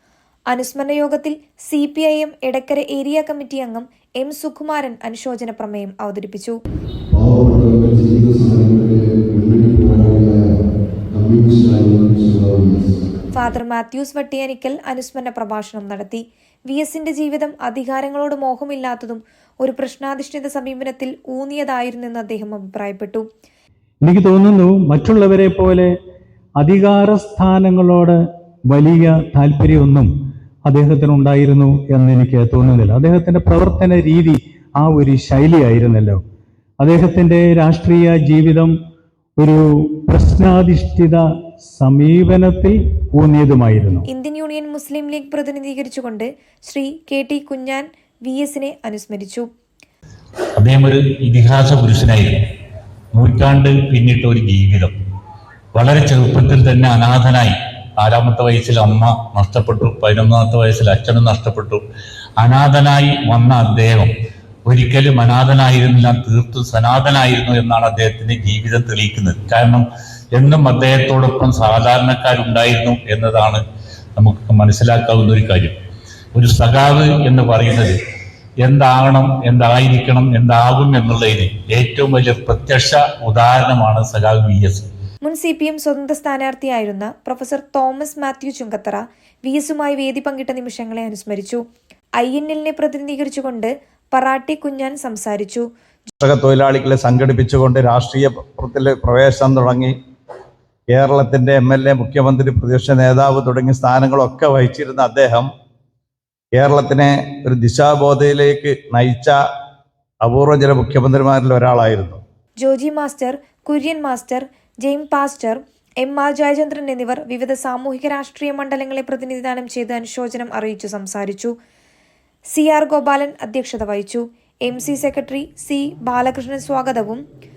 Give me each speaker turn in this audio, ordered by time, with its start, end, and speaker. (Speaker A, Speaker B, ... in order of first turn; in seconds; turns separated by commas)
Speaker A: 0.5-6.5, Speaker B: 7.1-10.5, Speaker B: 11.1-13.1, Speaker A: 13.3-23.2, Speaker C: 24.0-25.9, Speaker C: 26.6-30.1, Speaker C: 30.6-36.2, Speaker C: 36.8-38.7, Speaker C: 39.4-44.0, Speaker A: 44.1-49.5, Speaker D: 50.6-52.3, Speaker D: 53.1-54.9, Speaker D: 55.7-61.8, Speaker D: 62.4-64.1, Speaker D: 64.7-73.6, Speaker D: 74.2-75.7, Speaker D: 76.3-78.0, Speaker D: 78.6-84.9, Speaker A: 85.2-91.6, Speaker A: 92.2-95.6, Speaker E: 96.2-99.9, Speaker E: 100.9-105.5, Speaker E: 106.5-109.3, Speaker E: 110.2-112.2, Speaker A: 112.6-121.5, Speaker A: 122.5-127.2